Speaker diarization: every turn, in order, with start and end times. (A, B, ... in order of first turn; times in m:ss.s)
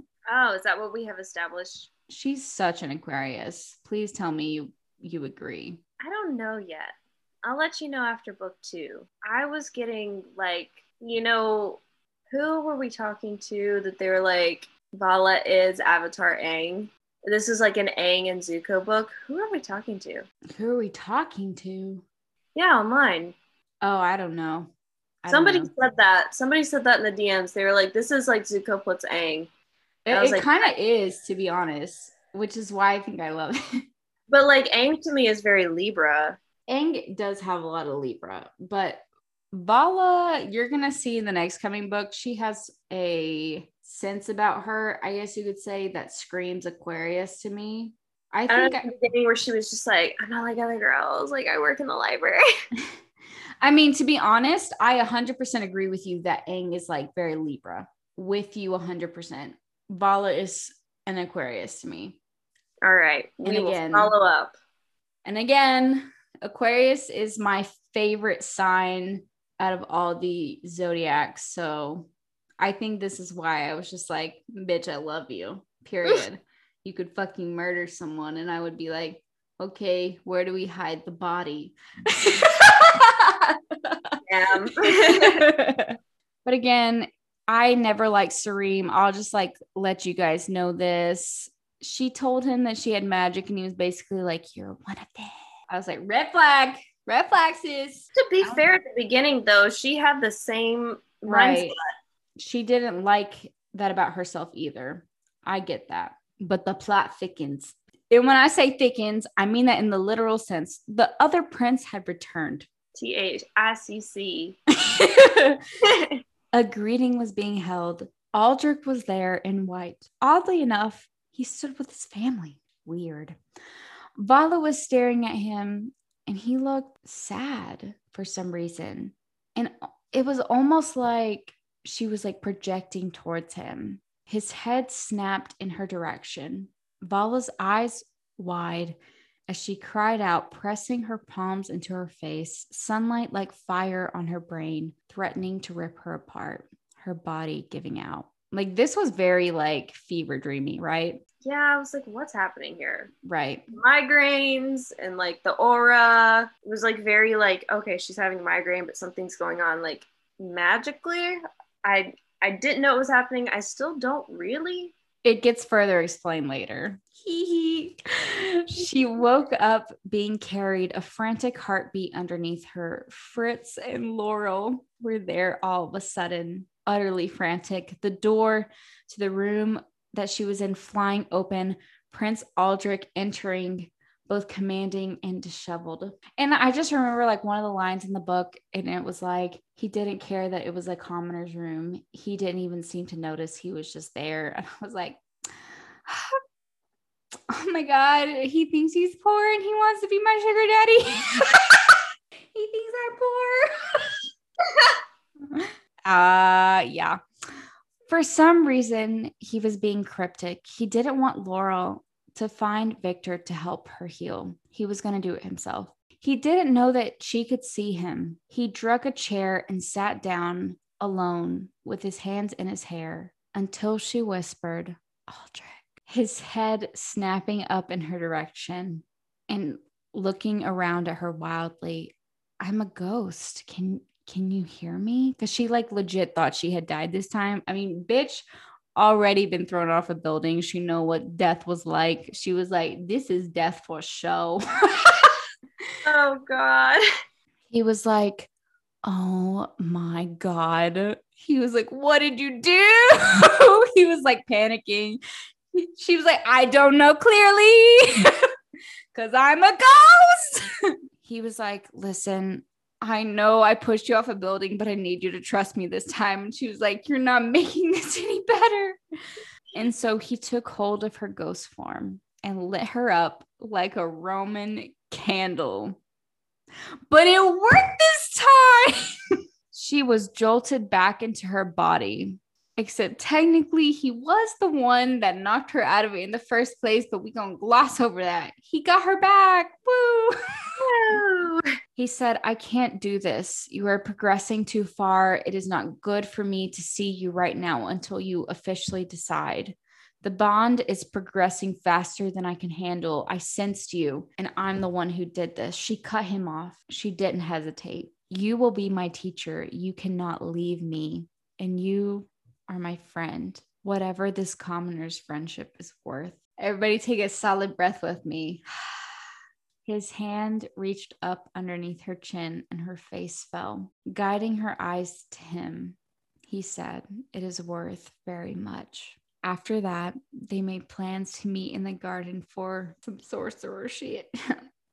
0:00.3-0:01.9 A
0:02.1-0:05.8 B
0:06.0-0:20.2 A
0:20.5-0:22.0 B
0:22.6-0:23.4 A
0:23.8-0:24.7 B
0:25.2-0:25.7 B
0:25.3-0:29.5 A
0:30.0-0:33.6 B
0:30.1-0:30.7 A
0:34.3-0:36.4 A
0:36.7-0:48.9 B
0:48.5-0:52.4 A
0:53.6-1:02.2 B
1:02.8-1:04.5 A
1:03.4-1:04.1 B
1:05.2-1:12.1 B
1:12.6-1:24.2 B
1:24.3-1:25.5 A
1:25.1-1:38.6 B
1:38.2-1:41.8 A
1:41.2-1:41.8 B
1:42.4-1:52.7 B
1:52.9-1:54.6 A
1:54.8-1:55.6 B
1:55.8-1:56.2 A
1:56.5-2:03.4 B
2:04.2-2:19.0 B
2:19.5-2:31.2 B
2:31.4-2:33.1 A
2:33.2-2:33.7 B
2:33.7-2:44.9 A
2:45.2-3:15.2 B
3:16.0-3:16.4 B
3:17.5-3:22.0 B
3:22.5-3:24.2 B
3:25.5-3:27.2 B
3:28.1-4:05.3 B
4:06.0-4:07.0 A
4:07.7-4:08.5 B
4:09.0-4:15.2 B
4:15.7-4:18.4 B
4:19.1-4:20.7 B
4:21.2-4:29.0 B
4:29.7-4:36.0 B
4:37.1-4:39.0 B
4:39.7-4:50.6 B
4:50.8-4:51.7 A
4:52.0-5:19.2 B
5:19.8-5:26.0 B
5:26.5-5:34.6 B